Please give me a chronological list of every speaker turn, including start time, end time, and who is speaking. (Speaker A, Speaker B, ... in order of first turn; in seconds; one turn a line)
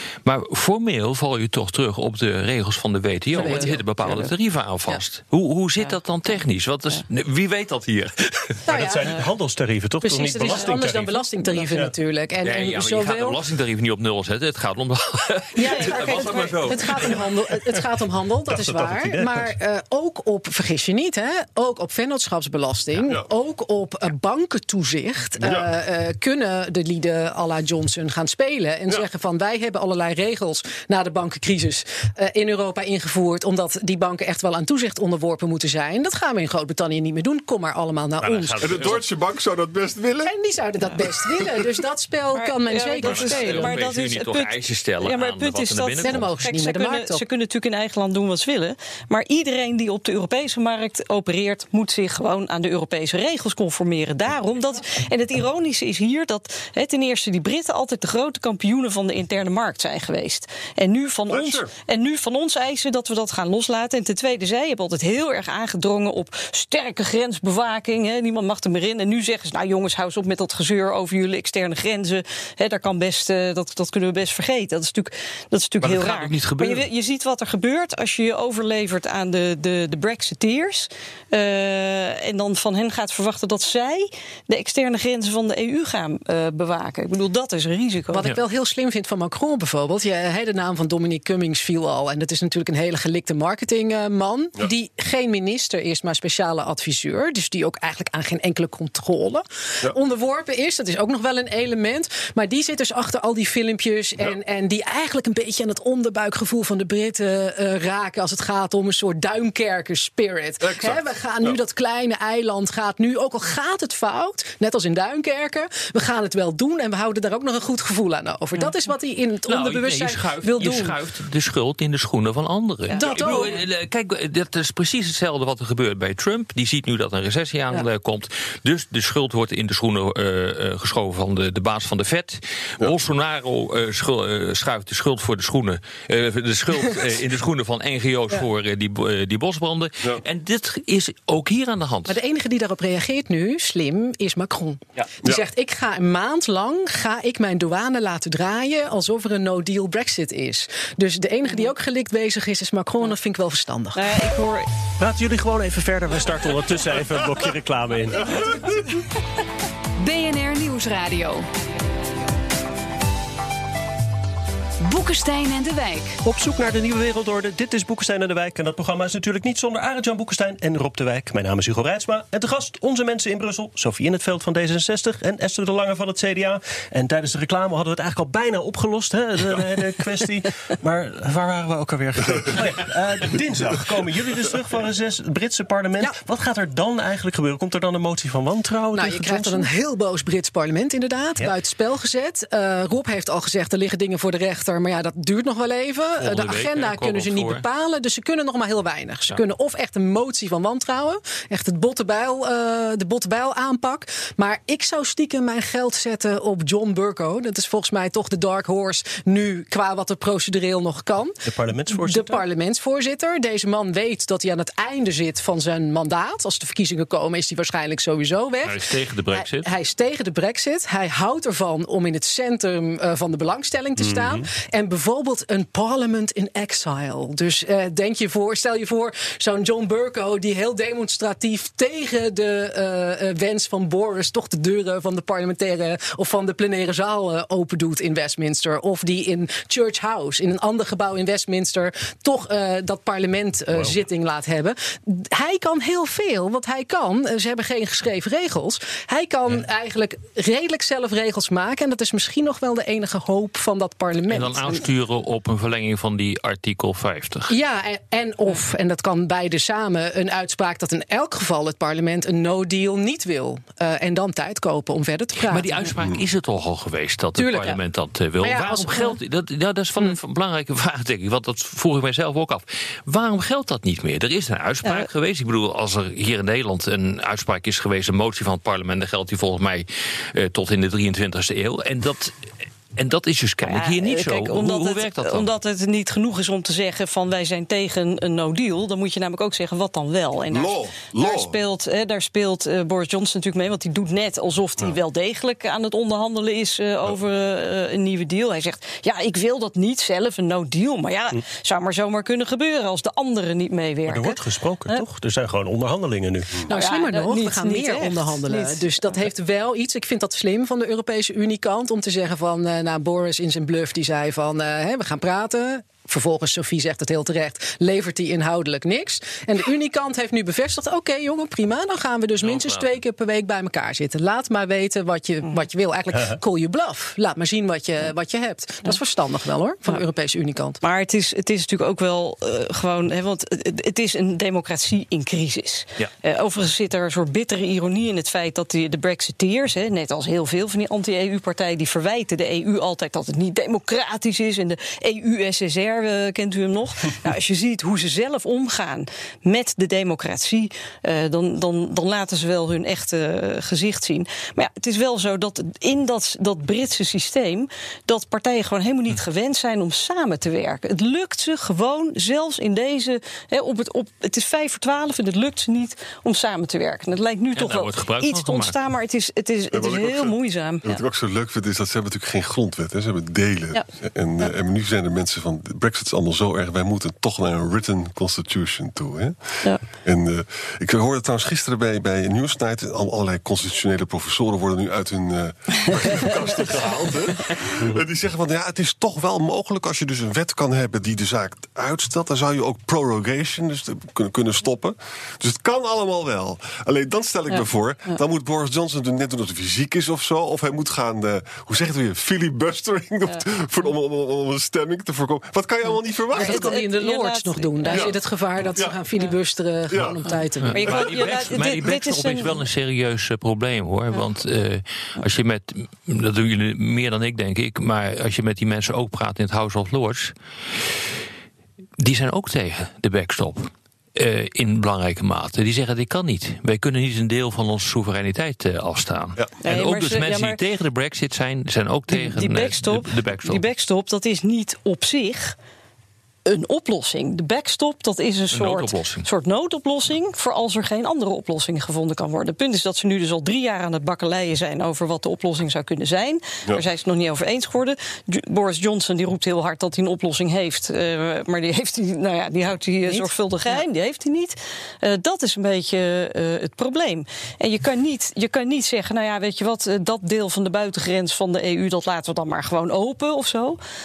Speaker A: 0.2-8.6
Speaker B: 3.3-3.8
Speaker C: 3.4-4.3
Speaker C: 5.8-6.4
Speaker B: 8.7-9.1
Speaker D: 8.7-11.9
Speaker B: 10.0-13.4
Speaker A: 12.4-17.2
Speaker B: 15.6-39.0
Speaker C: 15.6-16.8
Speaker E: 16.0-17.1
Speaker D: 18.5-19.5
Speaker E: 25.4-25.7
Speaker D: 38.2-39.0
Speaker E: 38.6-40.3
Speaker B: 40.2-43.8
Speaker C: 42.3-88.3
Speaker A: 43.0-46.3
Speaker B: 46.0-47.2
Speaker E: 61.3-61.7
Speaker A: 75.8-76.8
Speaker B: 88.1-121.0
Speaker E: 110.6-111.6
Speaker A: 119.5-142.2
Speaker C: 122.9-123.3
Speaker B: 122.9-123.5
Speaker B: 142.1-154.3
Speaker C: 153.9-154.7
Speaker D: 155.0-158.3
Speaker F: 160.0-161.5
Speaker F: 164.8-166.2
Speaker D: 166.2-189.7
Speaker B: 188.9-218.8
Speaker A: 196.2-197.6
Speaker D: 211.4-212.4
Speaker A: 218.6-219.7
Speaker B: 219.3-254.8
Speaker D: 224.0-224.4
Speaker A: 254.3-257.5
Speaker B: 257.5-265.9
Speaker A: 265.5-282.4
Speaker B: 267.4-267.8
Speaker B: 268.4-269.2
Speaker A: 282.9-285.5
Speaker C: 283.6-305.0
Speaker E: 290.5-291.6
Speaker D: 304.1-306.6
Speaker B: 306.6-330.8
Speaker C: 306.7-308.9
Speaker A: 322.4-323.0
Speaker C: 330.8-371.0
Speaker A: 367.6-368.8
Speaker E: 369.7-406.8
Speaker C: 397.5-398.2
Speaker B: 406.3-410.9
Speaker C: 406.3-408.1
Speaker E: 407.9-409.0
Speaker E: 409.9-410.3
Speaker A: 410.6-420.9
Speaker C: 410.7-412.6
Speaker E: 410.8-411.4
Speaker A: 422.0-433.6
Speaker C: 429.6-430.6
Speaker C: 432.1-435.6
Speaker C: 436.4-463.8
Speaker A: 438.5-439.2
Speaker B: 453.0-453.8